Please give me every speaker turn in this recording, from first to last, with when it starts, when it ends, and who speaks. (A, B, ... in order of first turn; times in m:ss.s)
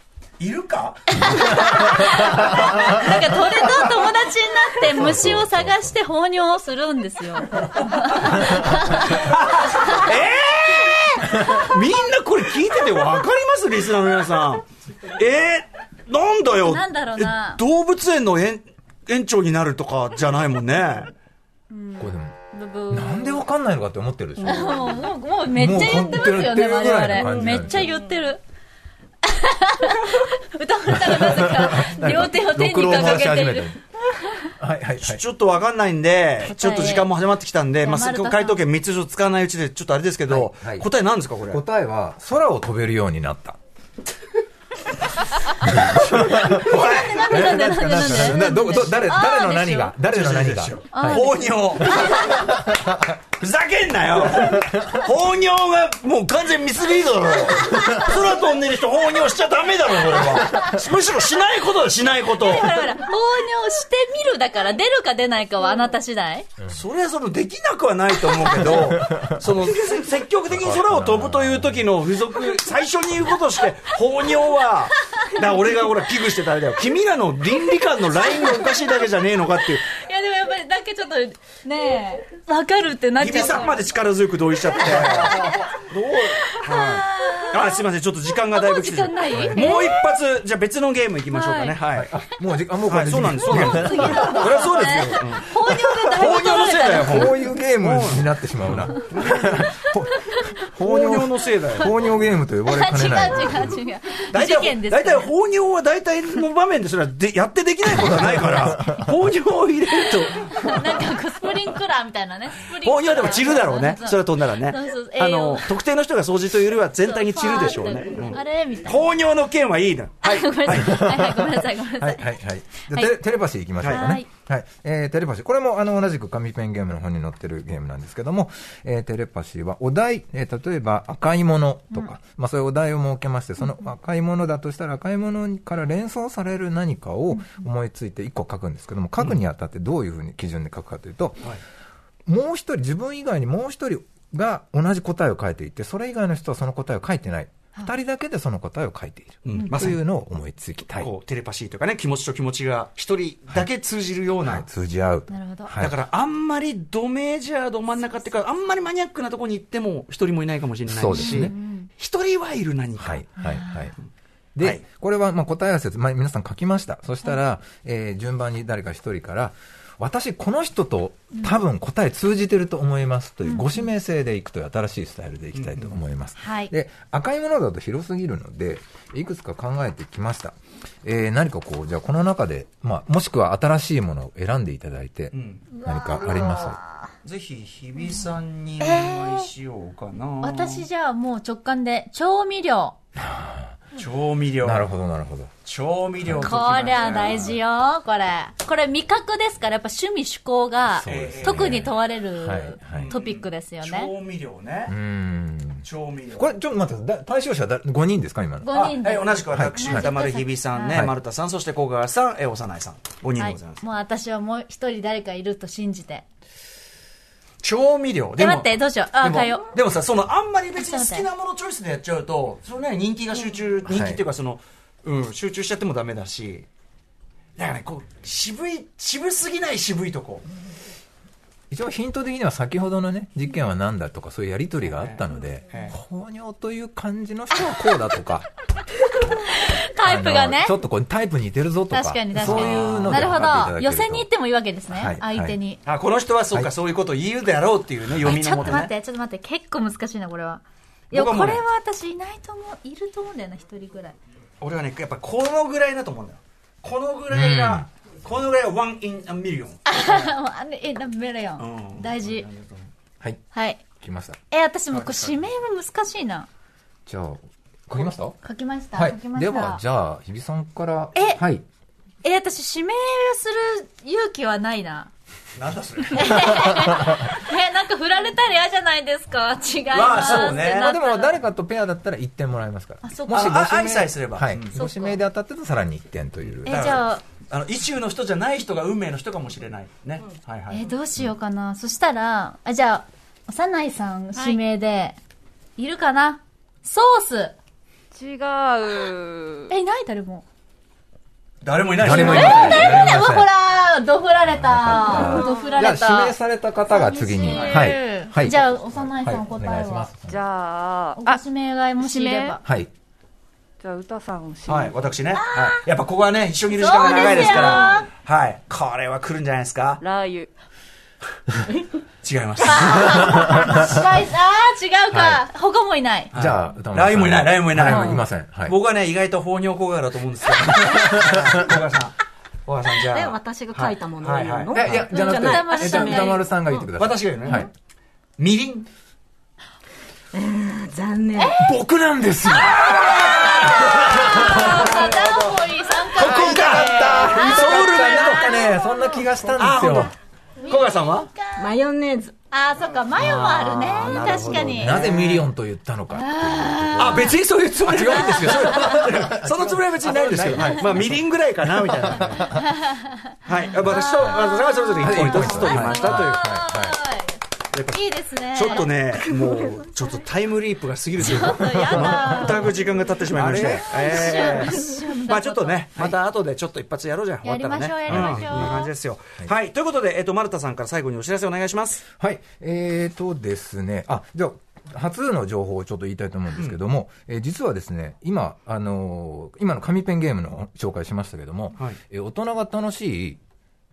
0:00.4-0:01.2 A
0:01.1-0:09.2 B
0:01.4-0:02.6 C
0:02.6-0:04.0 A
0:04.8-0:05.9 C
0:08.0-0:08.4 A
0:09.0-0:21.1 A
0:16.6-0:17.6 B
0:21.7-0:23.4 B
0:22.0-0:22.4 C
0:22.9-0:24.9 C
0:24.4-0:28.4 B
0:25.6-0:27.9 C
0:29.3-0:34.5 B
0:30.9-0:33.8 C
0:34.6-0:35.2 C
0:35.0-0:41.6 A
0:36.4-0:37.1 B
0:37.8-0:38.6 B
0:40.3-0:40.9 C
0:41.5-0:43.6 C
0:45.6-0:53.1 C
0:46.2-0:47.7 A
0:46.7-0:50.0 B
0:50.1-0:52.4 A
0:50.9-0:52.4 B
0:53.4-1:02.9 A
0:54.4-0:54.7 C
1:02.4-1:06.5 B
1:06.7-1:19.8 A
1:08.5-1:09.9 C
1:10.5-1:12.0 C
1:18.4-1:18.7 B
1:19.9-1:23.9 B
1:23.2-1:32.1 A
1:24.8-1:25.8 B
1:26.5-1:27.8 B
1:28.5-1:30.0 B
1:31.3-1:31.8 B
1:31.9-1:34.6 C
1:32.9-1:35.5 A
1:33.6-1:37.4 B
1:35.6-1:36.2 C
1:36.1-1:39.6 A
1:37.0-1:43.8 C
1:40.8-1:41.9 A
1:42.7-1:45.3 B
1:44.3-1:51.0 A
1:48.0-1:49.0 C
1:50.2-1:55.8 B
1:52.8-2:01.0 A
1:57.0-1:59.1 B
2:00.2-2:02.3 B
2:00.7-2:21.5 C
2:03.8-2:04.1 A
2:03.8-2:04.3 B
2:17.3-2:17.6 B
2:22.3-2:31.1 C
2:29.4-2:30.0 A
2:30.9-2:34.7 A
2:34.4-2:36.0 C
2:35.3-2:35.8 B
2:35.8-2:43.2 A
2:40.9-2:41.5 C
2:41.1-2:41.9 B
2:43.0-2:44.0 C
2:43.4-2:43.9 B
2:44.6-3:06.8 C
2:53.4-2:53.9 B
2:55.5-2:56.0 A
2:56.4-2:56.7 B
3:05.3-3:05.7 A
3:05.8-3:06.8 B
3:07.2-3:10.9 A
3:08.8-3:09.5 B
3:10.4-3:13.0 B
3:13.2-3:13.8 C
3:14.0-3:14.9 A
3:14.6-3:15.5 C
3:15.6-3:17.5 A
3:16.2-3:16.6 C
3:16.4-3:24.1 B
3:20.9-3:23.1 C
3:21.1-3:21.9 A
3:22.9-3:24.9 A
3:24.9-3:28.8 C
3:25.8-3:26.5 A
3:28.6-3:31.1 B
3:28.7-3:33.8 A
3:29.5-3:30.1 C
3:33.4-3:36.2 B
3:37.6-3:46.7 A
3:38.4-3:39.7 B
3:40.8-3:41.3 B
3:43.9-3:44.2 C
3:47.6-3:50.5 A
3:51.7-3:58.5 C
3:54.8-3:56.0 A
3:59.2-4:00.8 B
4:00.0-4:04.3 C
4:01.9-4:05.8 B
4:02.3-4:03.4 A
4:04.9-4:05.6 C
4:05.8-4:08.9 A
4:08.2-4:08.8 C
4:08.2-4:14.2 B
4:11.1-4:11.6 A
4:14.6-4:20.3 A
4:17.3-4:17.9 C
4:19.9-4:22.5 B
4:21.6-4:22.9 A
4:23.5-4:23.8 B
4:24.0-4:24.4 C
4:24.5-4:26.5 B
4:24.9-4:25.4 A
4:27.1-4:28.4 C
4:28.4-4:29.8 B
4:29.0-4:31.6 C
4:31.2-4:31.4 B
4:32.2-4:35.1 B
4:35.6-4:36.5 A
4:36.1-4:41.4 B
4:39.9-4:40.9 A
4:40.4-4:46.7 C
4:43.0-4:43.5 B
4:43.3-4:44.8 A
4:44.8-4:45.2 B
4:46.5-4:50.9 A
4:46.6-4:47.2 B
4:50.7-4:55.2 B
4:55.8-4:57.6 B
4:58.1-4:59.7 D
4:59.7-5:00.4 B
5:01.6-5:03.1 A
5:02.0-5:03.5 C
5:02.1-5:10.1 B
5:04.5-5:10.4 C
5:07.6-5:07.8 D
5:10.3-5:11.4 D
5:11.2-5:12.6 B
5:12.0-5:12.6 D
5:12.6-5:12.9 C
5:13.8-5:15.0 D
5:14.7-5:20.0 A
5:15.4-5:15.8 B
5:16.7-5:18.1 B
5:17.0-5:18.0 D
5:20.0-5:20.5 D
5:22.2-5:23.2 A
5:22.6-5:26.3 B
5:23.2-5:23.9 C
5:25.1-5:25.4 C
5:26.3-5:35.2 A
5:26.3-5:28.8 C
5:30.9-5:31.4 C
5:33.1-5:36.8 E
5:34.7-5:37.7 C
5:35.1-5:36.4 B
5:37.0-5:37.7 A
5:38.4-5:38.9 A
5:40.3-5:41.6 E
5:41.4-5:41.7 B
5:41.6-5:45.1 C
5:42.5-5:45.6 A
5:43.1-5:49.2 B
5:46.1-5:48.7 A
5:46.2-5:50.1 C
5:49.6-5:50.1 A
5:50.6-5:51.7 B
5:50.7-5:51.3 A
5:51.6-5:52.3 E
5:52.5-5:55.1 B
5:53.2-5:55.5 A
5:54.4-6:02.7 C
5:56.1-5:57.3 B
5:57.0-6:02.5 A
5:58.1-5:58.8 B
6:02.4-6:08.9 B
6:03.5-6:06.5 A
6:04.1-6:04.4 C
6:05.0-6:07.0 C
6:05.2-6:05.8 E
6:07.7-6:22.0 A
6:11.2-6:12.7 C
6:11.2-6:12.9 B
6:13.3-6:14.1 C
6:13.5-6:16.1 B
6:14.3-6:15.0 E
6:17.4-6:18.9 B
6:18.1-6:18.8 C
6:22.2-6:33.4 C
6:26.5-6:26.8 A